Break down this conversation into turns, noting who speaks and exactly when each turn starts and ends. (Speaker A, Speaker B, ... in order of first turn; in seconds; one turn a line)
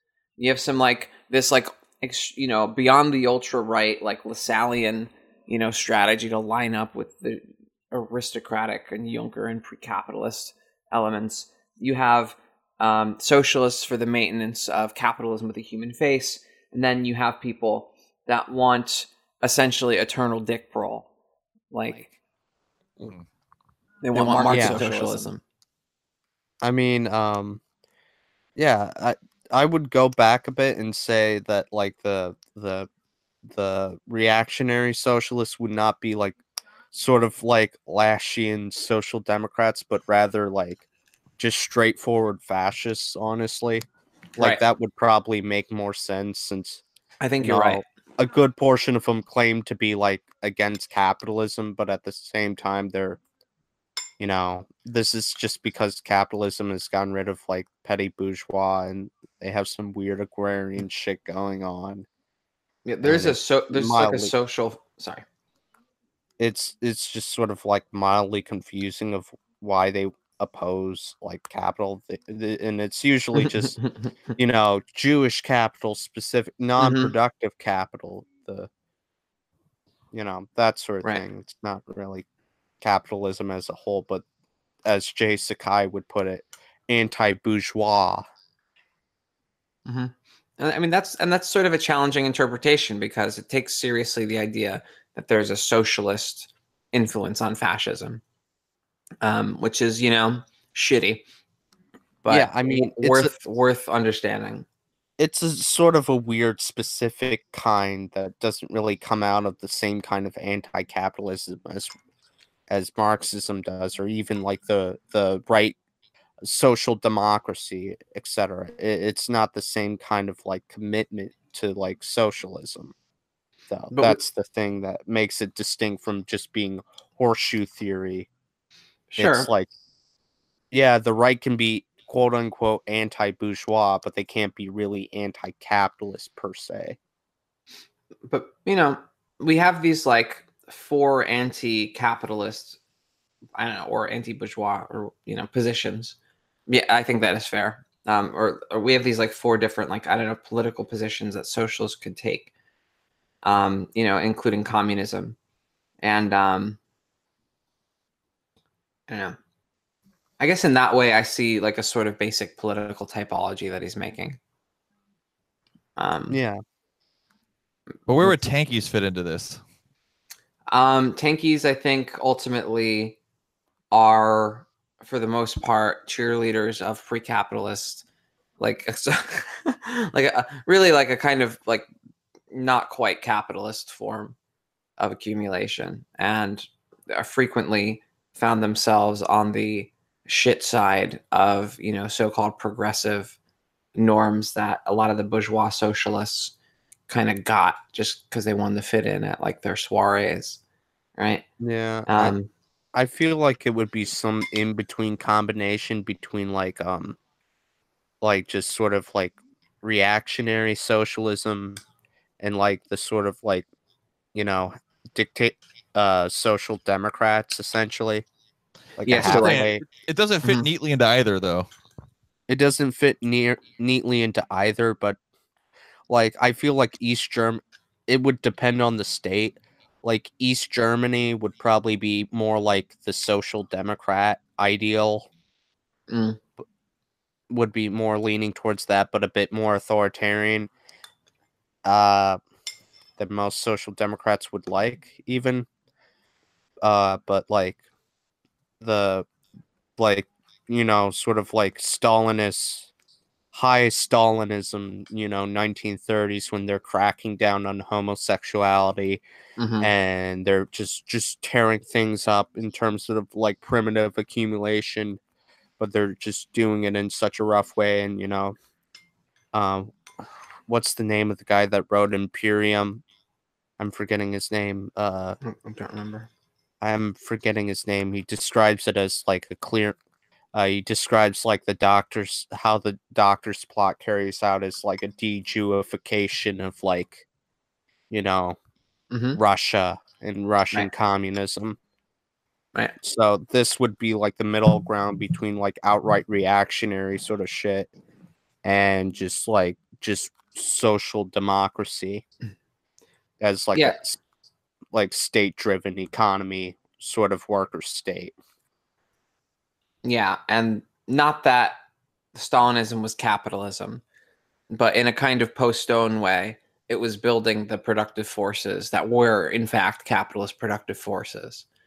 Speaker A: 0.4-21.1
Speaker A: 21.7-22.1
Speaker A: 24.0-25.4
Speaker B: 24.1-25.3
Speaker C: 24.5-25.0
Speaker B: 26.6-27.6
Speaker B: 28.6-32.9
Speaker B: 33.5-36.4
Speaker B: 36.9-40.9
Speaker B: 41.4-43.8
Speaker B: 44.4-46.8
Speaker A: 47.2-47.8
Speaker B: 47.4-53.2
Speaker B: 54.2-62.1
Speaker A: 62.9-65.2
Speaker B: 63.0-64.3
Speaker B: 66.4-73.8
Speaker A: 73.4-74.0
Speaker B: 74.4-78.7
Speaker A: 76.8-77.1
Speaker B: 80.1-82.3
Speaker B: 82.8-84.2
Speaker B: 84.8-88.2
Speaker A: 89.9-98.2
Speaker A: 99.2-101.2
Speaker A: 102.2-104.7
Speaker B: 102.3-103.3
Speaker B: 105.2-111.9
Speaker B: 112.7-115.8
Speaker B: 116.4-123.0
Speaker B: 123.7-128.3
Speaker A: 123.9-124.2
Speaker A: 129.1-129.5
Speaker B: 129.2-129.7
Speaker B: 130.7-137.0
Speaker A: 138.3-142.8
Speaker A: 143.6-146.2
Speaker A: 146.7-152.5
Speaker A: 153.4-155.4
Speaker A: 156.0-156.8
Speaker A: 159.1-159.4
Speaker A: 160.4-164.4
Speaker A: 166.0-166.4
Speaker B: 166.3-166.6
Speaker C: 168.1-169.6
Speaker A: 170.7-173.2
Speaker A: 173.9-178.0
Speaker A: 178.6-181.9
Speaker A: 182.5-184.4
Speaker A: 185.0-193.4
Speaker A: 193.9-196.5
Speaker A: 197.1-200.6
Speaker A: 201.2-201.4
Speaker B: 201.6-202.3
Speaker A: 202.1-202.5
Speaker B: 202.9-207.2
Speaker B: 208.2-211.8
Speaker B: 212.4-213.7
Speaker B: 214.3-218.3
Speaker B: 219.0-219.8
Speaker A: 219.1-219.7
Speaker C: 219.1-221.7
Speaker B: 222.5-225.2
Speaker B: 226.1-235.3
Speaker A: 236.1-236.4
Speaker B: 237.5-240.7
Speaker B: 241.8-242.4
Speaker B: 243.2-245.7
Speaker B: 246.8-247.8
Speaker B: 248.8-249.3
Speaker B: 250.0-252.9
Speaker B: 253.5-259.2
Speaker A: 259.6-259.9
Speaker B: 259.8-265.2
Speaker B: 265.8-268.6
Speaker B: 269.5-269.9
Speaker B: 270.7-273.0
Speaker B: 273.8-275.4
Speaker A: 275.4-276.3
Speaker B: 276.8-280.0
Speaker B: 280.5-287.2
Speaker B: 288.1-288.6
Speaker A: 289.1-289.4
Speaker B: 289.4-291.8
Speaker B: 293.0-297.9
Speaker B: 298.6-302.2
Speaker B: 303.4-304.2
Speaker B: 304.9-308.4
Speaker A: 310.0-311.8
Speaker A: 312.4-314.0
Speaker A: 314.7-321.7